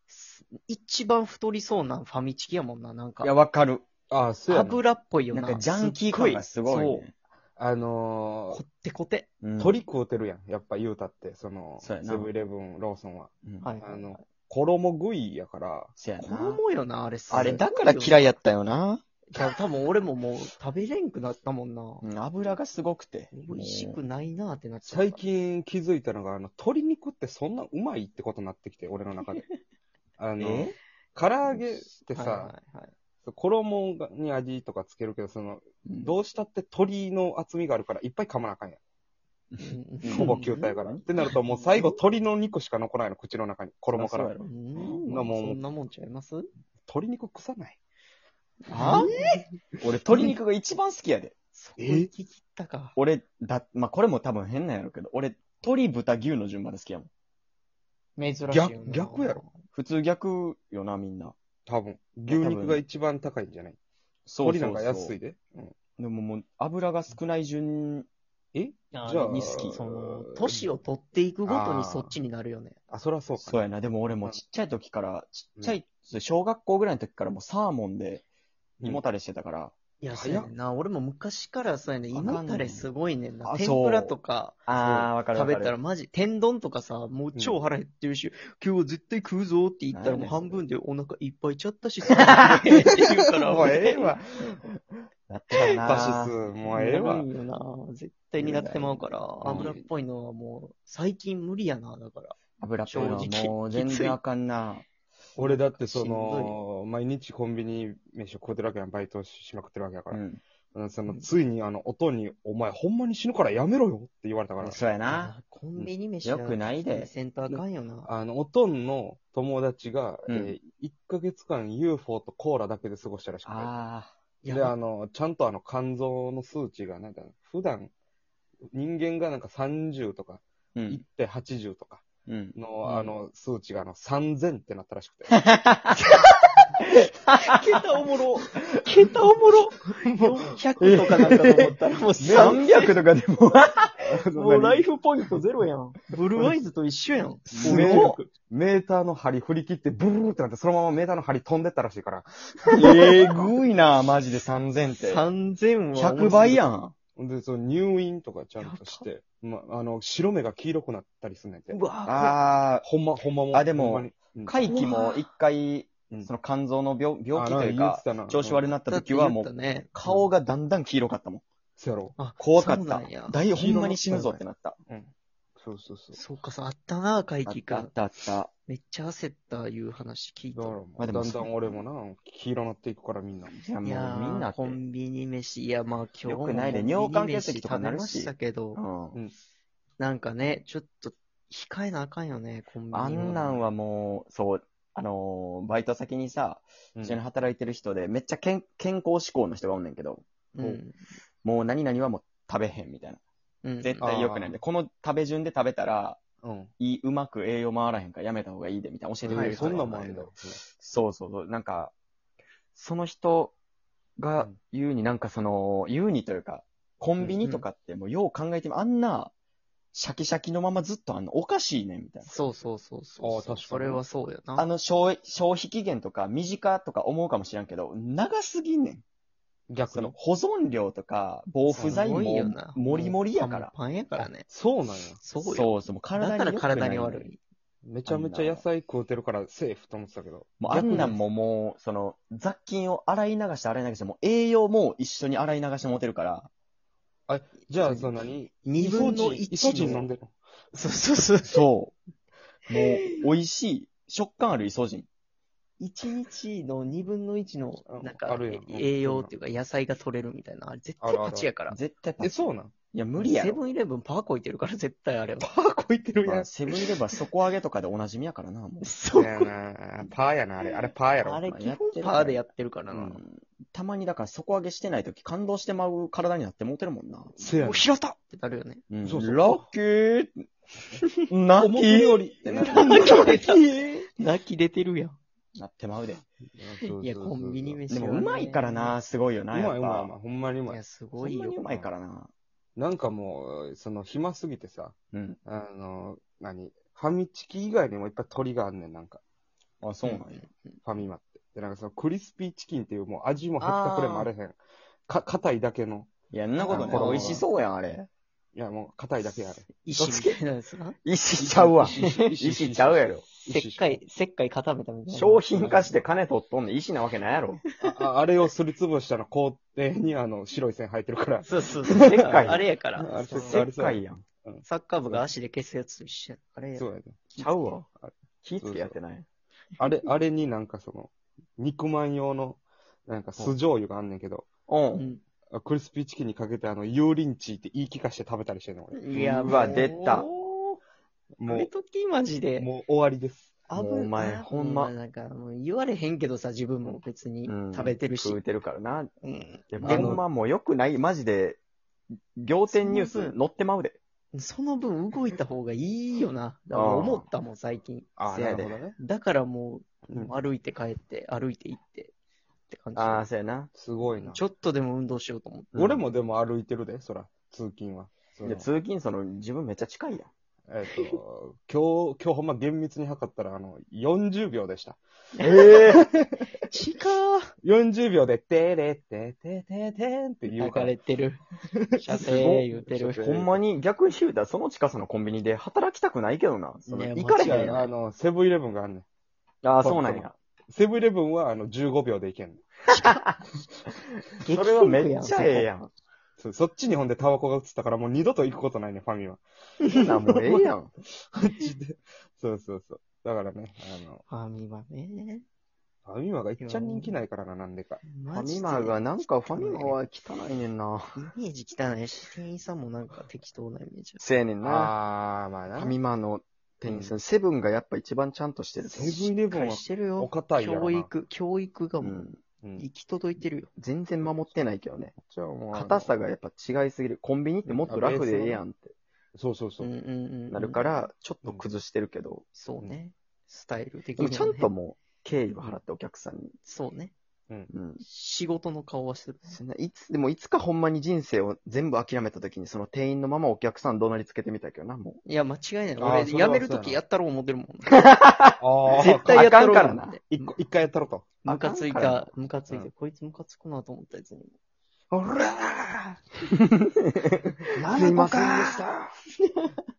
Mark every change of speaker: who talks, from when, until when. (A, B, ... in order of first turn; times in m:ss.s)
0:00.1-0:03.3 A
0:03.2-0:03.9 B
0:04.1-0:04.8 C
0:04.5-0:07.1 A
0:05.3-0:07.1 B
0:07.6-0:08.6 C
0:08.5-0:09.3 A
0:09.4-0:09.8 B
0:09.6-0:15.9 C
0:11.8-0:12.3 B
0:13.6-0:14.2 A
0:16.0-0:16.6 B
0:16.2-0:18.3 A
0:17.3-0:19.5 B
0:19.3-0:22.0 A
0:22.0-0:24.0 B
0:23.3-0:25.2 A
0:24.9-0:29.4 C
0:30.2-0:32.5 C
0:30.4-0:30.7 B
0:32.1-0:32.9 A
0:33.2-0:38.8 C
0:35.8-0:36.2 B
0:39.5-0:41.0 B
0:39.6-0:41.9 A
0:40.1-0:44.4 C
0:43.9-0:45.0 B
0:44.4-0:46.5 A
0:45.1-0:45.6 C
0:46.9-0:47.8 C
0:48.7-0:49.4 A
0:48.7-0:49.1 B
0:48.7-0:49.2 C
0:49.8-0:51.3 B
0:51.5-0:53.0 A
0:51.8-0:52.1 C
0:53.0-0:57.1 B
0:58.2-0:59.5 A
0:58.5-0:59.4 C
0:59.7-1:01.4 B
1:01.7-1:03.8 C
1:02.3-1:02.8 B
1:04.3-1:05.2 B
1:04.4-1:05.8 C
1:06.0-1:08.1 B
1:08.5-1:10.7 C
1:08.9-1:12.8 A
1:11.5-1:12.2 C
1:12.9-1:13.6 C
1:13.4-1:18.2 B
1:18.8-1:19.8 B
1:20.0-1:24.6 A
1:20.1-1:20.5 C
1:22.1-1:22.9 B
1:23.4-1:24.2 B
1:24.7-1:25.8 B
1:24.8-1:25.1 C
1:25.2-1:34.2 A
1:29.9-1:30.6 B
1:33.4-1:34.8 C
1:35.3-1:36.3 B
1:35.6-1:35.9 A
1:35.6-1:37.3 C
1:36.7-1:44.2 A
1:38.4-1:39.8 B
1:39.4-1:39.8 C
1:42.6-1:44.9 B
1:45.4-1:46.6 A
1:45.4-1:50.2 C
1:50.1-1:50.4 B
1:50.7-1:54.8 C
1:54.6-1:55.3 B
1:55.0-1:58.1 A
1:56.2-1:57.1 B
1:57.5-2:03.7 C
2:00.3-2:00.6 B
2:03.4-2:04.1 B
2:04.4-2:04.7 A
2:04.5-2:07.9 C
2:08.7-2:15.4 C
2:10.8-2:11.0 B
2:12.3-2:13.1 B
2:15.3-2:16.2 B
2:16.8-2:23.0 A
2:20.8-2:23.9 B
2:24.0-2:24.7 C
2:24.3-2:28.3 A
2:24.4-2:24.8 B
2:27.5-2:28.1 C
2:27.6-2:29.0 B
2:29.0-2:32.9 C
2:32.8-2:35.2 B
2:35.0-2:36.7 A
2:35.9-2:37.0 B
2:37.2-2:41.8 C
2:38.6-2:39.1 A
2:41.7-2:42.6 A
2:42.0-2:42.9 B
2:42.8-2:44.6 C
2:43.5-2:51.4 B
2:44.7-2:45.2 A
2:47.3-2:48.7 C
2:48.9-2:49.9 A
2:50.0-2:50.3 C
2:51.8-2:52.2 C
2:52.2-2:53.4 A
2:52.4-2:54.8 B
2:53.5-2:56.2 C
2:56.1-2:57.9 A
2:57.5-2:58.5 B
2:58.7-3:00.8 A
3:00.6-3:03.6 C
3:01.0-3:01.8 B
3:03.6-3:04.8 B
3:03.8-3:08.8 A
3:06.2-3:09.2 B
3:10.0-3:13.6 A
3:12.9-3:20.2 B
3:13.2-3:13.5 C
3:17.0-3:17.2 C
3:20.6-3:21.0 A
3:21.4-3:23.2 B
3:23.6-3:24.1 A
3:23.8-3:26.2 B
3:24.0-3:24.6 C
3:26.4-3:26.7 C
3:26.8-3:31.9 B
3:29.2-3:30.6 C
3:29.3-3:29.8 A
3:32.8-3:33.6 B
3:34.2-3:39.3 B
3:37.4-3:37.7 A
3:39.9-3:42.3 B
3:42.3-3:44.7 A
3:43.2-3:44.0 C
3:44.6-3:49.0 B
3:49.7-3:50.2 C
3:49.9-3:54.3 B
3:51.7-3:52.0 C
3:51.8-3:54.5 A
3:54.5-3:55.2 C
3:55.2-3:57.4 A
3:55.4-3:57.3 B
3:57.8-4:01.1 C
3:58.1-3:58.6 B
4:00.6-4:06.5 B
4:00.7-4:01.2 A
4:07.3-4:10.4 C
4:08.6-4:10.1 A
4:10.7-4:11.6 A
4:11.4-4:12.0 B
4:12.7-4:15.1 B
4:15.8-4:21.8 A
4:17.9-4:19.3 C
4:21.0-4:21.5 C
4:21.7-4:23.6 B
4:22.2-4:22.7 C
4:23.2-4:25.5 A
4:25.4-4:26.5 C
4:26.2-4:28.9 B
4:28.8-4:29.5 A
4:29.1-4:31.4 C
4:30.7-4:33.2 A
4:31.4-4:32.4 B
4:32.9-4:33.2 C
4:33.2-4:37.4 B
4:37.4-4:38.8 A
4:37.4-4:37.9 C
4:38.9-4:40.5 B
4:39.0-4:39.6 C
4:41.3-4:43.6 B
4:41.6-4:43.3 C
4:42.6-4:45.2 A
4:45.6-4:46.3 B
4:46.6-4:47.8 C
4:46.9-4:49.0 A
4:47.9-4:50.1 B
4:49.5-4:50.8 C
4:50.7-4:51.6 A
4:51.2-4:52.3 B
4:51.6-4:51.9 C
4:52.8-4:59.2 C
4:55.1-4:55.4 B
4:59.8-5:00.4 B
5:00.1-5:00.8 A
5:00.8-5:04.6 C
5:03.6-5:04.3 B
5:05.1-5:06.1 C
5:06.3-5:08.1 B
5:06.6-5:07.4 A
5:06.7-5:07.5 C
5:08.6-5:09.7 C
5:09.8-5:11.0 A
5:10.0-5:10.4 B
5:11.0-5:13.3 B
5:11.4-5:14.0 C
5:11.8-5:12.3 A
5:13.4-5:15.9 A
5:15.1-5:17.6 B
5:15.6-5:15.9 C
5:17.8-5:25.2 C
5:21.4-5:23.7 A
5:22.0-5:22.6 B
5:23.4-5:24.2 B
5:24.6-5:27.8 A
5:26.8-5:27.3 C
5:27.4-5:27.8 B
5:27.8-5:29.0 C
5:28.4-5:29.3 B
5:29.8-5:34.5 C
5:34.7-5:35.1 B
5:35.0-5:35.2 A
5:35.5-5:39.9 C
5:38.9-5:40.8 A
5:39.1-5:40.3 B
5:41.4-5:41.7 C
5:41.5-5:42.7 A
5:42.6-5:43.6 C
5:43.7-5:48.4 A
5:43.8-5:44.9 B
5:46.8-5:49.1 B
5:49.2-5:50.2 A
5:49.7-5:51.6 B
5:49.8-5:50.2 C
5:52.4-5:54.0 B
5:52.7-5:53.4 A
5:54.3-6:02.1 A
5:56.7-5:57.3 B
5:58.2-5:59.0 C
5:58.3-5:58.7 B
6:00.1-6:00.3 C
6:02.7-6:03.3 A
6:03.0-6:03.7 B
6:03.7-6:04.4 C
6:04.1-6:05.7 A
6:05.7-6:06.0 B
6:05.8-6:08.7 C
6:08.4-6:10.3 B
6:10.7-6:15.0 C
6:10.9-6:11.2 A
6:15.4-6:15.8 A
6:15.4-6:16.0 B
6:15.8-6:16.4 C
6:16.7-6:17.5 A
6:17.6-6:21.0 C
6:20.5-6:21.4 A
6:21.9-6:23.5 A
6:22.1-6:27.8 B
6:26.9-6:29.0 C
6:26.9-6:27.9 A
6:29.6-6:30.3 B
6:29.8-6:32.6 C
6:32.9-6:33.4 B
6:33.9-6:35.9 B
6:34.4-6:35.7 A
6:36.4-6:39.4 C
6:39.8-6:40.2 A
6:39.9-6:40.9 B
6:40.2-6:40.7 C
6:41.3-6:44.2 C
6:44.3-6:45.4 A
6:46.1-6:48.1 C
6:46.6-6:47.2 A
6:48.0-6:50.0 A
6:48.3-6:51.2 B
6:51.2-6:54.2 A
6:54.2-6:54.9 B
6:54.6-6:56.0 C
6:55.8-6:59.2 B
6:56.9-6:57.1 C
6:58.8-7:03.7 A
6:58.9-7:01.1 C
7:02.0-7:02.4 B
7:03.8-7:09.0 B
7:05.2-7:06.1 C
7:07.7-7:08.6 C
7:09.4-7:09.9 C
7:09.8-7:10.9 A
7:10.5-7:12.4 B
7:12.5-7:14.7 A
7:14.2-7:16.6 B
7:16.6-7:17.1 A
7:17.7-7:18.0 B
7:18.0-7:19.6 A
7:19.5-7:25.2 B
7:25.2-7:28.1 A
7:26.0-7:27.0 C
7:27.9-7:30.2 B
7:28.6-7:29.5 C
7:28.9-7:30.5 A
7:30.3-7:31.3 C
7:31.4-7:34.5 A
7:31.5-7:32.3 B
7:35.1-7:36.2 C
7:36.7-7:38.8 B
7:37.7-7:38.9 C
7:38.5-7:38.9 A
7:39.4-7:39.8 A